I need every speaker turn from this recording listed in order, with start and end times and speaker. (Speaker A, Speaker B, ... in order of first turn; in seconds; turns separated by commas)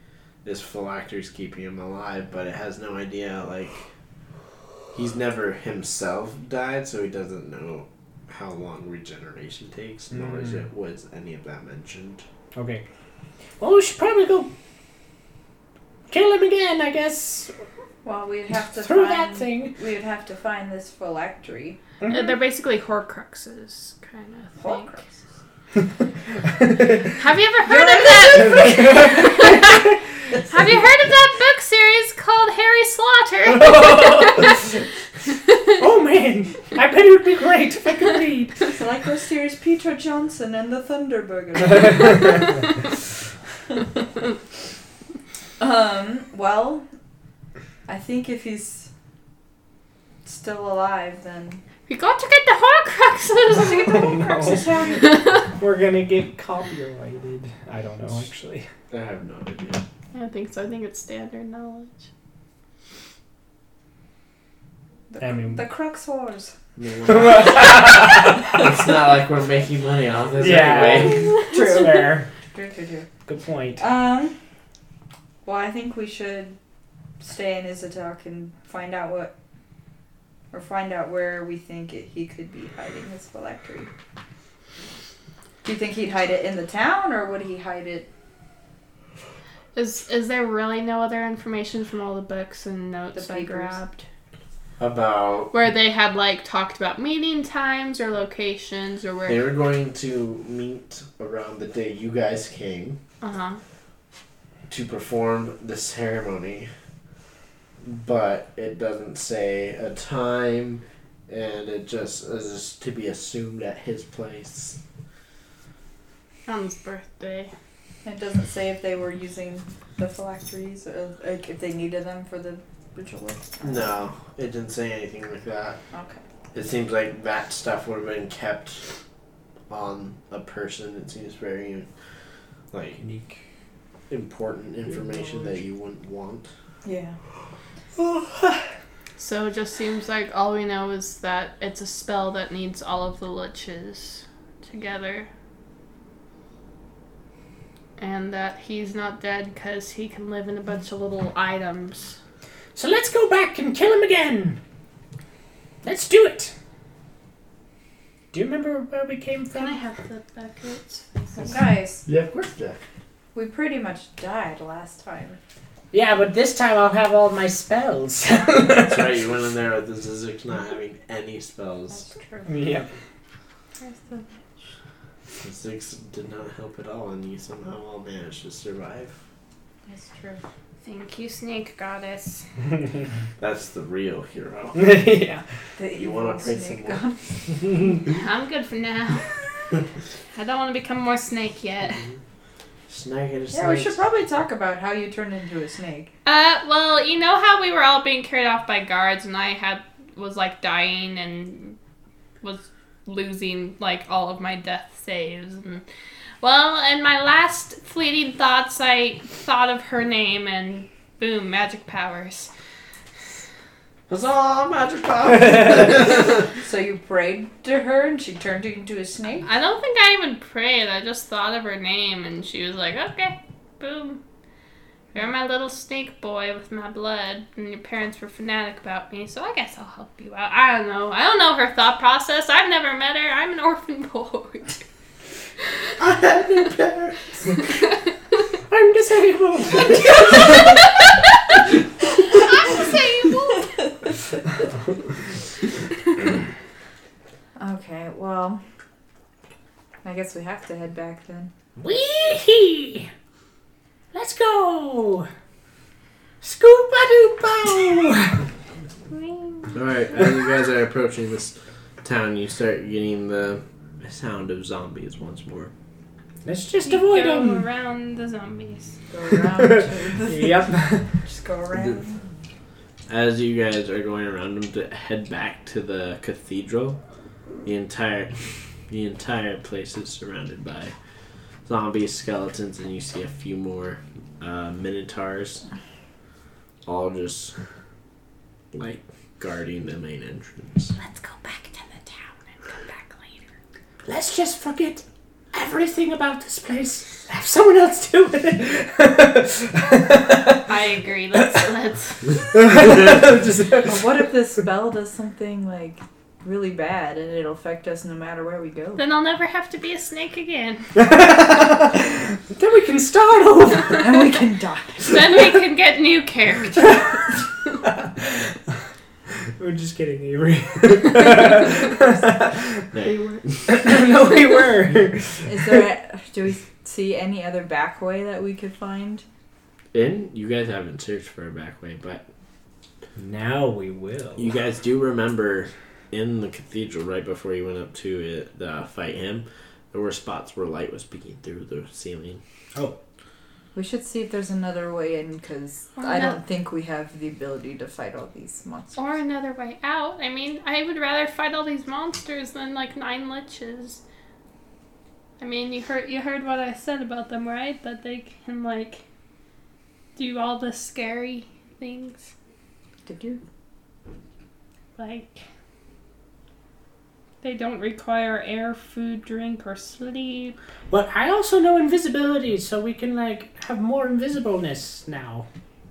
Speaker A: 0.4-3.9, Speaker A: 4.9-12.2, Speaker B: 10.1-10.6, Speaker B: 12.5-12.8, Speaker B: 13.6-14.5, Speaker B: 16.1-17.5, Speaker C: 18.0-21.8, Speaker B: 18.8-19.8, Speaker B: 22.0-22.3, Speaker D: 22.1-24.9, Speaker C: 24.6-25.0, Speaker B: 26.4-27.1, Speaker D: 27.1-29.8, Speaker C: 27.6-29.5, Speaker B: 28.3-30.0, Speaker C: 30.3-30.8, Speaker D: 30.5-34.7, Speaker B: 33.5-34.8, Speaker B: 35.8-38.6, Speaker C: 38.6-42.6, Speaker C: 45.6-46.9, Speaker C: 47.9-48.9, Speaker C: 50.2-51.6, Speaker D: 51.9-55.4, Speaker C: 53.6-55.2, Speaker B: 53.7-58.7, Speaker A: 58.9-59.8, Speaker D: 60.1-62.1, Speaker C: 65.1-66.5, Speaker B: 65.2-65.6, Speaker A: 66.8-71.3, Speaker B: 67.1-68.7, Speaker B: 70.4-72.3, Speaker C: 71.4-73.1, Speaker B: 73.2-73.8, Speaker C: 73.8-74.4, Speaker C: 75.4-76.6, Speaker C: 77.2-79.3, Speaker C: 80.5-83.9, Speaker C: 85.6-88.1, Speaker D: 89.7-93.9, Speaker C: 93.1-94.0, Speaker A: 94.8-95.5, Speaker D: 95.5-99.4, Speaker A: 99.2-103.0, Speaker D: 103.2-103.6, Speaker A: 104.7-106.7, Speaker A: 107.8-114.8, Speaker D: 116.5-117.5, Speaker C: 118.0-123.8, Speaker A: 123.6-125.8, Speaker C: 125.9-126.2, Speaker A: 126.5-128.8, Speaker A: 129.7-131.9, Speaker A: 132.7-133.0, Speaker B: 133.0-133.4, Speaker A: 134.1-136.5, Speaker C: 136.8-137.2, Speaker D: 139.2-145.3, Speaker D: 148.0-152.2, Speaker B: 152.7-154.6, Speaker B: 155.8-156.5, Speaker B: 158.3-159.8, Speaker D: 159.5-161.6, Speaker C: 161.3-162.0, Speaker A: 162.1-162.8, Speaker C: 163.3-165.4, Speaker B: 165.9-169.1, Speaker A: 168.8-172.0, Speaker C: 171.9-172.5, Speaker B: 172.5-172.9, Speaker C: 173.8-174.4, Speaker A: 175.4-179.1, Speaker C: 179.9-180.4, Speaker D: 180.8-182.4, Speaker A: 183.4-184.8, Speaker B: 184.7-185.4, Speaker C: 185.8-187.4, Speaker A: 185.9-187.7, Speaker D: 188.0-189.8, Speaker D: 190.3-192.0, Speaker A: 192.9-194.0, Speaker C: 193.5-196.1, Speaker D: 196.2-201.8, Speaker D: 202.4-205.8, Speaker D: 206.4-212.5, Speaker A: 214.1-216.4, Speaker C: 216.5-219.5, Speaker D: 219.4-224.2, Speaker D: 225.1-234.8, Speaker D: 235.6-235.9, Speaker A: 236.0-237.7, Speaker B: 238.7-240.8, Speaker D: 240.2-241.0, Speaker D: 242.2-243.9, Speaker C: 247.6-248.6, Speaker C: 250.0-251.5, Speaker B: 251.8-253.1, Speaker B: 254.1-255.3, Speaker B: 256.4-258.4, Speaker D: 259.1-259.7, Speaker A: 259.7-265.7, Speaker B: 266.4-267.6, Speaker D: 266.8-269.0, Speaker C: 269.1-270.6, Speaker B: 269.6-271.1, Speaker C: 271.2-272.2, Speaker A: 273.1-277.0, Speaker A: 277.6-280.9, Speaker A: 281.6-285.6, Speaker A: 286.8-287.5, Speaker A: 288.7-290.9, Speaker D: 291.0-293.3, Speaker B: 294.0-300.7, Speaker D: 300.7-302.6, Speaker B: 302.5-304.1, Speaker C: 303.8-309.0, Speaker D: 309.0-310.9, Speaker B: 310.9-314.3, Speaker C: 313.9-315.2, Speaker D: 315.0-317.2, Speaker B: 318.2-318.5, Speaker B: 319.6-322.9, Speaker A: 322.9-323.8, Speaker B: 323.7-325.8, Speaker C: 325.4-329.2, Speaker A: 329.9-332.2, Speaker B: 333.1-334.5, Speaker A: 334.4-342.4, Speaker C: 343.7-349.1, Speaker D: 346.0-346.4, Speaker D: 348.9-354.0, Speaker D: 355.4-359.0, Speaker D: 360.1-362.3, Speaker C: 363.1-363.4, Speaker D: 364.9-365.4, Speaker D: 367.4-370.6, Speaker B: 370.9-375.5